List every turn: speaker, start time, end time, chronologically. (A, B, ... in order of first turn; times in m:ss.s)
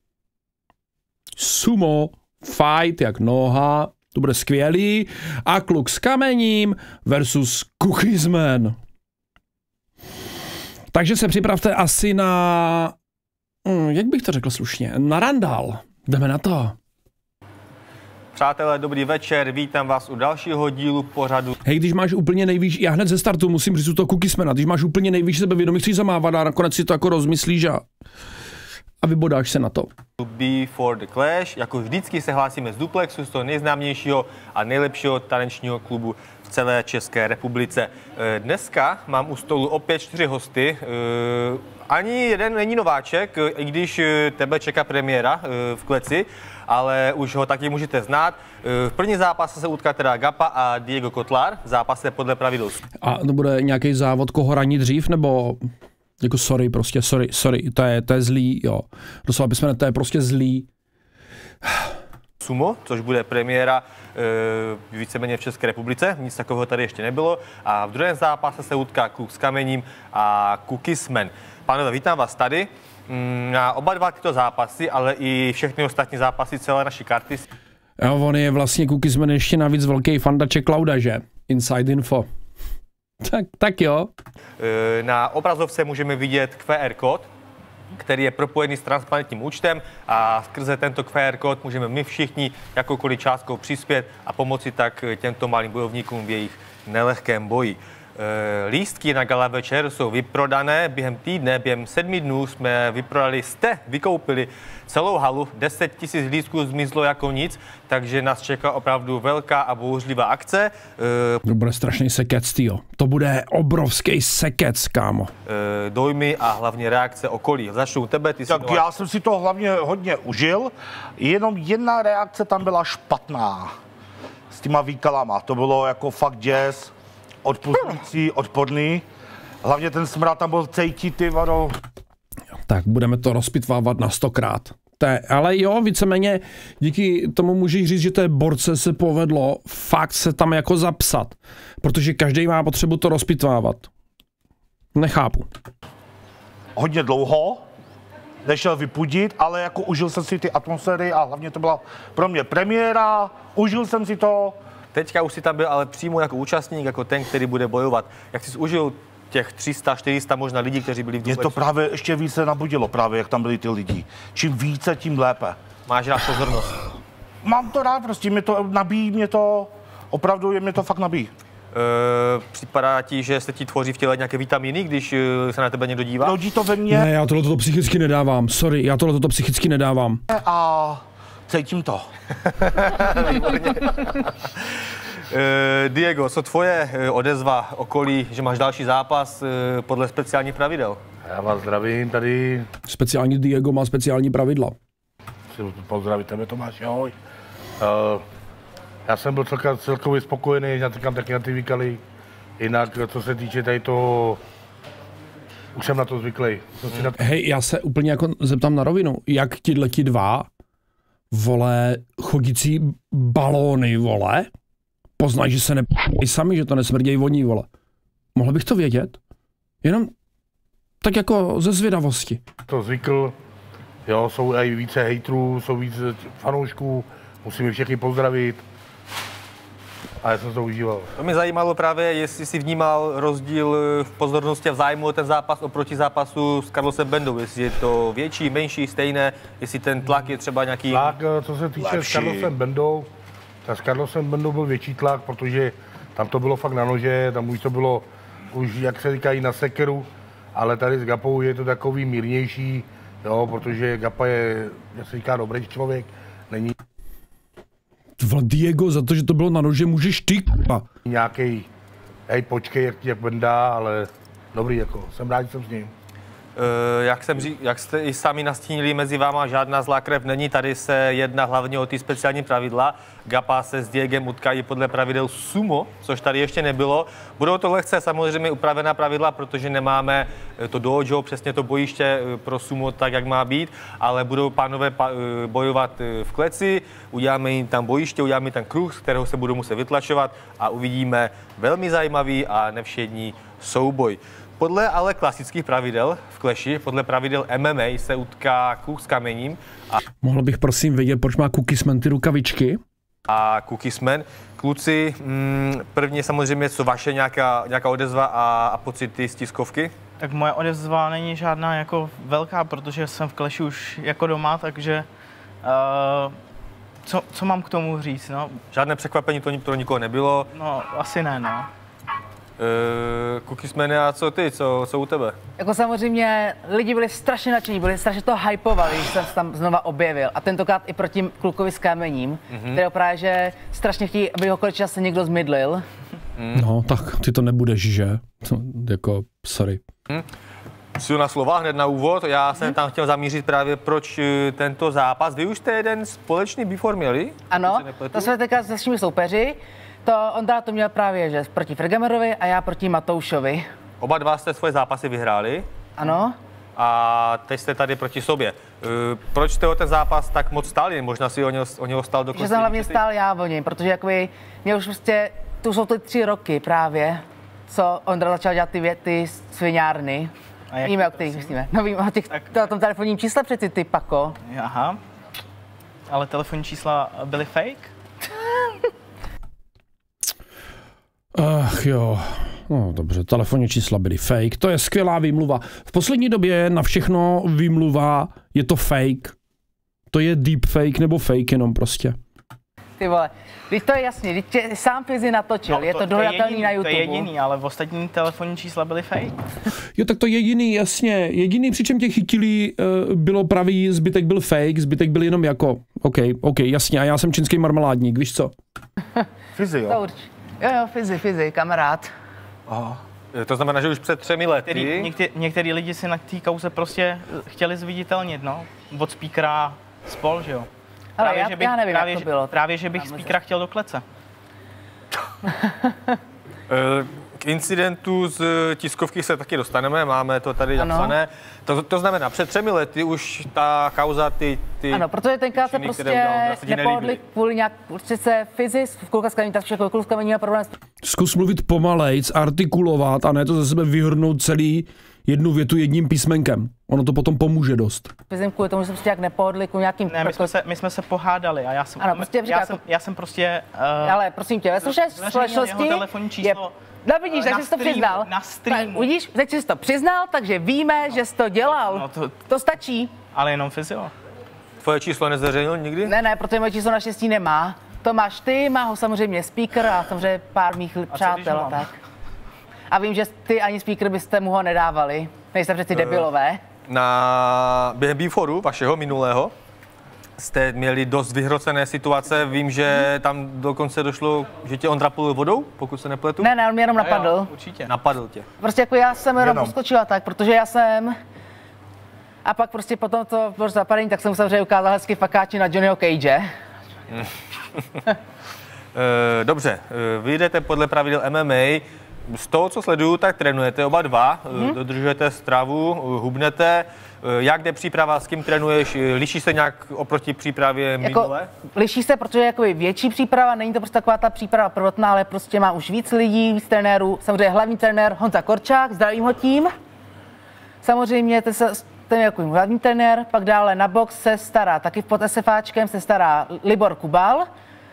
0:01.4-0:08.8 A
0:10.9-0:13.0 A
0:13.6-0:16.8 A
0:18.4-0:21.6 B
0:21.6-0:27.8 A
0:29.0-0:29.9 A
0:30.2-0:52.8 B
0:53.0-0:55.6 A
0:56.2-1:00.7 A
1:02.4-1:17.4 B
1:18.0-1:22.3 A
1:23.2-1:24.1 A
1:24.6-1:27.3 B
1:28.0-1:51.4 B
1:51.4-1:55.3 A
1:55.5-1:59.0 B
1:58.5-2:03.7 C
2:04.5-2:06.9 C
2:07.4-2:09.0 C
2:09.6-2:11.8 C
2:12.7-2:23.9 A
2:25.0-2:25.5 A
2:26.8-2:27.6 C
2:28.4-2:34.6 C
2:34.9-2:41.6 B
2:41.2-2:45.6 C
2:45.9-2:46.8 B
2:47.4-2:51.3 C
2:51.7-2:56.4 B
2:56.2-2:57.1 C
2:56.9-3:00.2 A
3:00.3-3:02.1 C
3:02.6-3:04.5 B
3:05.3-3:11.0 B
3:11.3-3:12.7 D
3:12.9-3:14.8 A
3:15.5-3:17.1 D
3:17.8-3:18.2 D
3:19.1-3:22.0 D
3:22.6-3:24.4 D
3:25.8-3:27.2 D
3:27.2-3:30.5 A
3:31.3-3:34.5 A
3:35.2-3:37.7 A
3:38.4-3:39.2 A
3:39.8-3:40.1 A
3:41.0-3:42.4 A
3:42.7-3:43.3 D
3:44.1-3:48.6 D
3:50.2-3:51.1 D
3:51.2-4:01.1 B
4:00.9-4:03.1 D
4:01.8-4:02.5 C
4:03.6-4:16.8 D
4:18.2-4:20.9 A
4:21.0-4:21.7 D
4:22.3-4:25.9 D
4:26.6-5:00.0 B
5:00.2-5:02.8 A
5:03.3-5:09.9 B
5:10.2-5:15.1 E
5:15.6-5:16.4 E
5:17.0-5:18.6 E
5:18.7-5:20.5 B
5:20.5-5:21.7 E
5:22.6-5:25.4 B
5:25.6-5:35.8 F
5:32.5-5:32.8 B
5:36.4-5:36.6 B
5:36.5-5:39.8 A
5:41.0-5:48.3 B
5:47.5-5:53.7 F
5:54.0-5:55.7 B
5:56.0-5:56.4 F
5:56.8-6:03.0 B
6:02.4-6:10.3 F
6:10.7-6:11.5 E
6:10.8-6:14.4 F
6:14.5-6:15.0 E
6:16.1-6:17.9 E
6:21.4-6:29.3 A
6:30.1-6:32.2 A
6:33.0-6:37.3 F
6:35.7-6:39.4 E
6:40.0-6:48.5 A
6:49.6-6:50.0 C
6:49.9-6:52.1 F
6:52.7-6:53.0 C
6:53.3-6:55.1 B
6:54.6-7:04.0 E
7:01.2-7:03.3 F
7:05.4-7:06.2 F
7:06.7-7:17.2 B
7:10.8-7:11.2 F
7:14.9-7:20.8 F
7:21.0-7:28.1 A
7:28.3-7:30.5 F
7:30.1-7:34.2 E
7:32.0-7:32.8 F
7:34.0-7:43.2 F
7:34.8-7:36.8 E
7:37.3-7:39.1 E
7:41.8-7:42.4 E
7:43.3-7:44.1 E
7:44.8-7:46.2 B
7:46.1-7:51.9 F
7:51.1-7:51.9 E
7:52.9-7:56.6 F
7:55.9-7:56.3 B
7:56.9-7:59.5 B
8:00.4-8:06.5 B
8:06.4-8:07.5 F
8:07.0-8:07.9 E
8:07.9-8:08.5 B
8:08.6-8:11.2 F
8:09.4-8:09.7 C
8:12.4-8:16.5 F
8:17.1-8:18.0 B
8:19.0-8:31.5 B
8:31.0-8:39.7 F
8:40.8-8:47.5 F